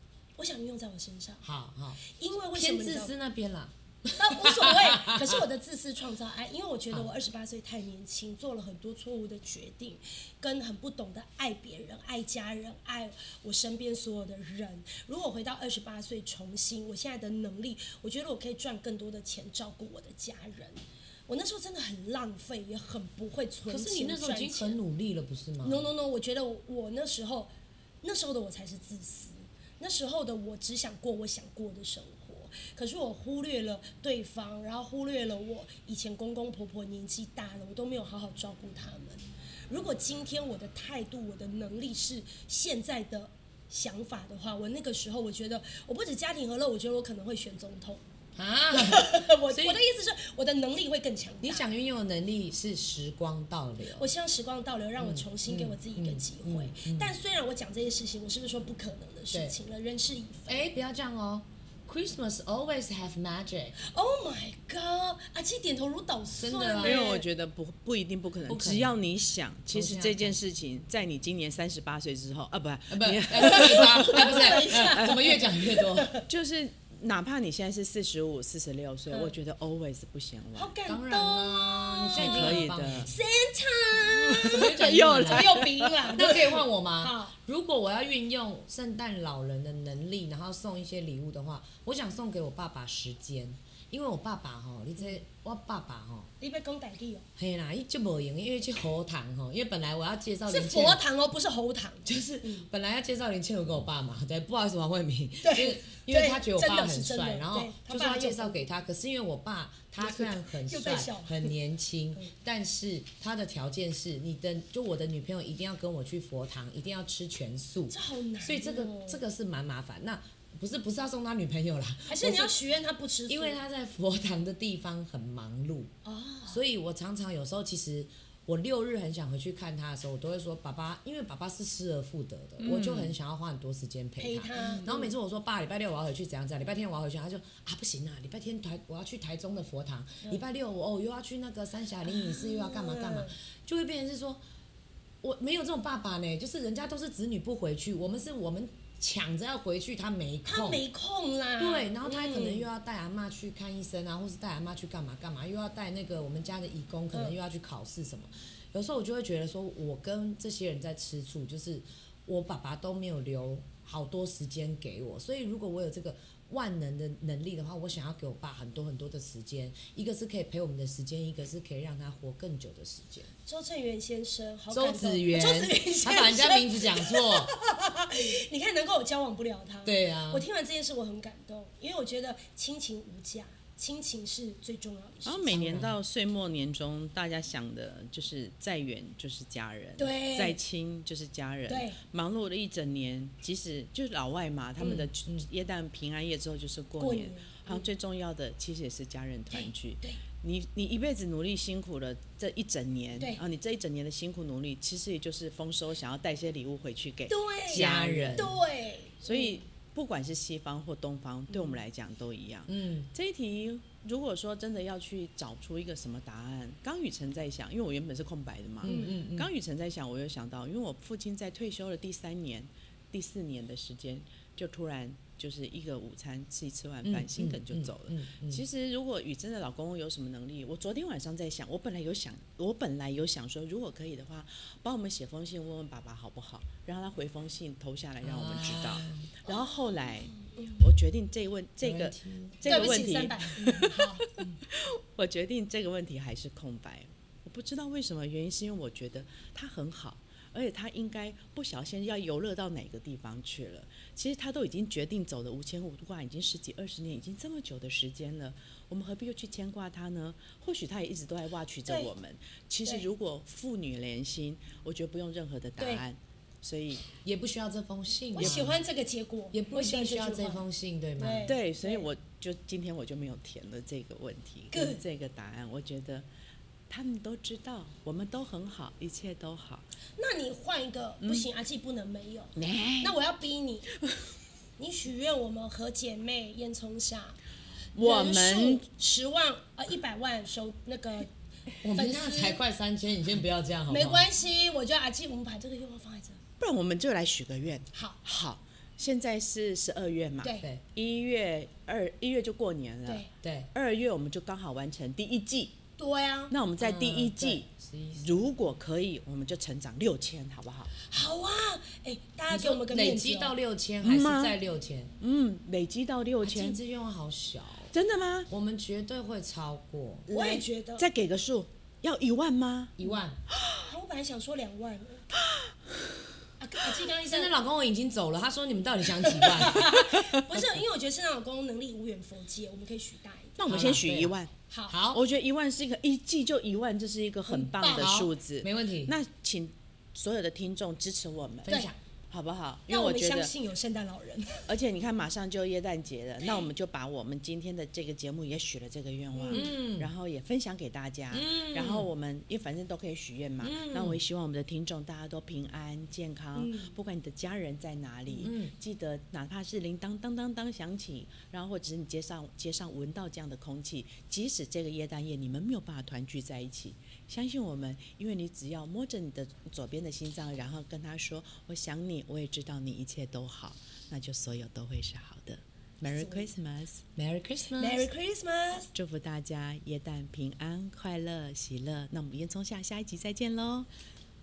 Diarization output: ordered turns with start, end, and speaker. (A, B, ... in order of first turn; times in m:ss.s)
0:00.4-0:01.4 A
0:01.4-0:02.0 B
0:02.0-0:03.1 A
0:02.6-0:05.4 B
0:04.2-0:24.8 A
0:23.7-0:25.9 B
0:25.6-0:48.0 A
0:48.4-0:49.8 B
0:48.7-0:51.7 A
0:51.4-0:54.1 B
0:54.0-1:00.7 A
0:55.0-0:57.1 B
1:00.5-1:03.8 B
1:03.8-1:07.2 A
1:06.4-1:07.0 B
1:06.8-1:15.2 C
1:08.5-1:08.9 B
1:09.7-1:10.4 B
1:12.9-1:16.1 B
1:13.4-1:16.3 A
1:16.3-1:20.7 C
1:20.6-1:27.4 A
1:20.9-1:23.2 B
1:22.2-1:23.1 C
1:24.4-1:26.4 C
1:24.4-1:25.6 B
1:26.1-1:36.3 B
1:36.4-1:37.3 A
1:37.4-1:41.0 B
1:40.5-1:42.7 A
1:42.0-2:02.6 B
1:45.4-1:48.6 A
1:50.0-1:51.5 A
1:57.9-1:59.2 A
2:02.1-2:03.6 A
2:03.3-2:05.9 B
2:06.0-2:06.6 A
2:06.5-2:24.4 B
2:12.6-2:13.2 C
2:14.2-2:15.1 A
2:22.1-2:23.3 A
2:25.2-2:30.8 B
2:30.5-2:32.7 A
2:31.6-2:53.3 B
2:37.1-2:37.4 A
2:53.5-3:05.9 A
2:54.7-2:57.5 B
2:59.8-3:00.4 B
3:05.3-3:28.6 C
3:05.5-3:06.0 B
3:10.0-3:10.6 A
3:11.7-3:12.0 A
3:14.8-3:15.1 A
3:17.0-3:17.9 A
3:19.5-3:20.2 A
3:27.3-3:29.6 A
3:27.7-3:28.6 B
3:29.2-4:27.0 C
3:31.5-3:31.8 A
3:32.7-3:33.1 B
3:38.8-3:39.5 B
3:38.8-3:39.2 A
3:47.0-3:48.6 B
3:58.2-3:59.3 B
3:59.5-3:59.7 A
4:00.4-4:00.8 A
4:01.8-4:03.1 B
4:02.6-4:04.3 A
4:25.8-4:26.0 A
4:27.2-4:28.8 B
4:28.4-4:30.6 A
4:29.5-4:31.5 B
4:31.2-4:32.1 A
4:31.5-4:36.3 C
4:34.7-4:35.0 A
4:36.9-4:39.8 C
4:40.2-4:43.9 A
4:42.6-4:43.2 C
4:44.8-4:47.4 A
4:48.0-4:48.9 C
4:48.0-4:51.3 A
4:51.8-4:54.3 B
4:51.9-4:52.6 A
4:53.9-4:56.4 A
4:56.6-5:05.8 C
4:57.9-4:58.2 A
5:00.4-5:00.7 A
5:00.6-5:00.8 B
5:03.4-5:03.7 B
5:06.0-5:06.6 A
5:06.5-5:07.7 C
5:06.8-5:08.5 B
5:08.2-5:10.9 C
5:11.0-5:13.6 A
5:12.5-5:15.1 B
5:14.0-5:14.6 C
5:15.2-5:16.8 C
5:16.4-5:17.9 B
5:17.9-5:18.5 C
5:18.5-5:20.3 B
5:20.3-5:21.1 A
5:20.3-5:23.0 C
5:23.0-5:23.4 B
5:23.8-5:25.3 A
5:26.6-5:27.5 A
5:27.2-5:30.0 B
5:29.4-5:33.6 A
5:29.9-5:30.2 C
5:33.6-5:34.5 C
5:33.7-5:34.4 B
5:34.7-5:35.0 A
5:34.9-5:35.2 B
5:35.1-5:41.8 C
5:37.5-5:38.1 A
5:37.9-5:39.1 B
5:41.6-5:42.0 B
5:42.3-5:43.5 C
5:42.9-5:44.7 A
5:44.7-6:17.1 C
5:49.4-5:49.8 A
5:49.5-5:50.1 B
5:51.3-5:52.1 B
5:53.6-5:54.2 B
5:56.6-5:56.9 A
5:58.4-5:58.8 B
6:16.1-6:16.5 A
6:17.2-6:18.1 B
6:17.8-6:18.9 A
6:18.9-6:23.9 C